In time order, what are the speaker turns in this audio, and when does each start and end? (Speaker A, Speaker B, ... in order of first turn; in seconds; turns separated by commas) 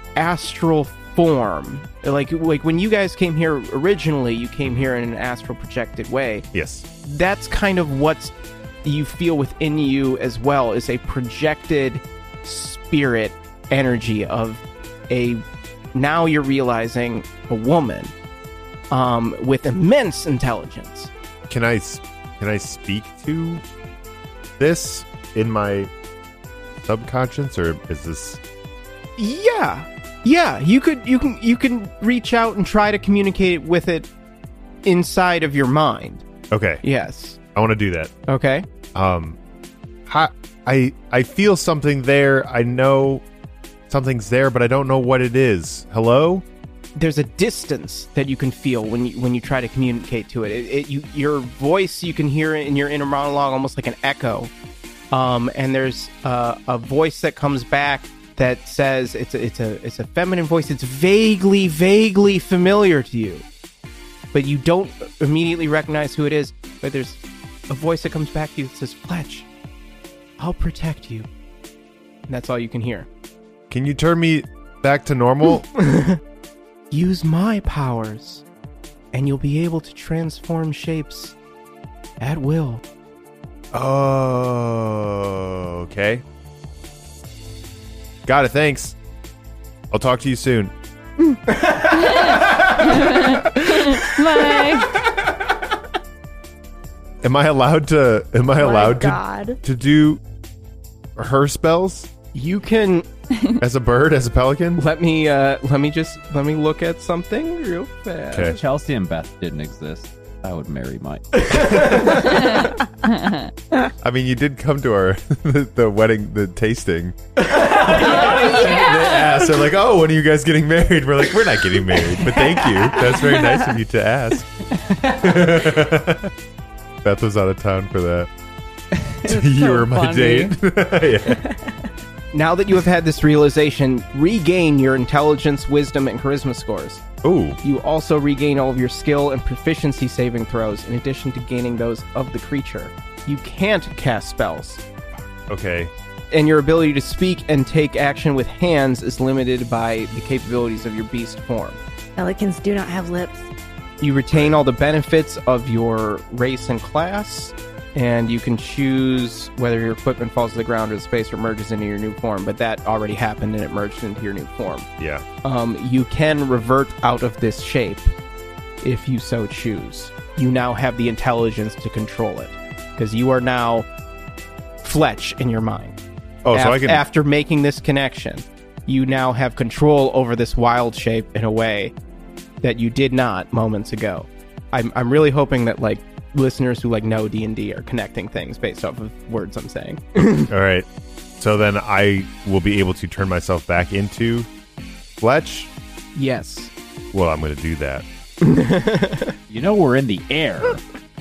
Speaker A: 0.1-6.4, Speaker B: 6.5-6.8, Speaker A: 7.0-8.3, Speaker A: 8.8-15.4, Speaker A: 15.9-18.1, Speaker A: 18.9-21.1, Speaker B: 21.5-23.6, Speaker B: 24.6-25.9, Speaker B: 26.8-28.4, Speaker A: 29.2-34.1, Speaker A: 34.8-36.2, Speaker B: 36.5-36.8, Speaker A: 36.8-37.4, Speaker B: 37.5-38.1, Speaker A: 38.3-38.6, Speaker B: 38.9-39.4, Speaker B: 40.1-43.2, Speaker B: 43.9-46.4, Speaker A: 47.0-54.5, Speaker A: 55.1-63.4, Speaker A: 64.3-69.5, Speaker A: 70.4-71.3, Speaker A: 72.3-73.1, Speaker B: 73.7-75.7, Speaker A: 75.7-76.2, Speaker A: 76.9-78.4, Speaker A: 79.1-81.3, Speaker A: 82.2-82.8, Speaker B: 83.7-86.2, Speaker B: 88.2-88.9, Speaker B: 89.9-90.7, Speaker A: 91.5-92.0, Speaker C: 91.8-95.0, Speaker B: 97.2-100.2, Speaker D: 98.5-99.6, Speaker B: 101.2-102.1, Speaker A: 102.3-103.0, Speaker B: 103.6-104.8, Speaker A: 104.8-108.6, Speaker B: 108.3-108.6, Speaker E: 108.4-111.9, Speaker A: 111.4-112.4, Speaker C: 112.2-113.5, Speaker B: 114.0-124.4, Speaker E: 117.6-118.8, Speaker C: 118.0-119.4, Speaker E: 124.8-125.7, Speaker B: 125.2-126.3, Speaker B: 127.0-128.3, Speaker E: 129.0-129.3, Speaker B: 129.2-131.4, Speaker D: 129.3-130.5, Speaker D: 131.3-131.8, Speaker A: 132.3-137.0, Speaker B: 137.2-137.6, Speaker A: 137.6-144.8, Speaker B: 145.5-145.9, Speaker A: 146.3-151.8, Speaker D: 152.2-153.5, Speaker A: 154.0-164.9, Speaker B: 154.3-154.6, Speaker B: 165.0-165.2, Speaker A: 165.4-168.1, Speaker A: 168.8-173.9, Speaker A: 174.8-176.0, Speaker B: 176.4-177.0, Speaker A: 176.5-181.9, Speaker A: 182.6-190.5, Speaker B: 190.5-190.8, Speaker B: 191.4-194.5, Speaker B: 195.2-195.7, Speaker A: 196.1-196.7, Speaker B: 197.1-198.0, Speaker A: 198.4-199.3, Speaker E: 199.5-200.8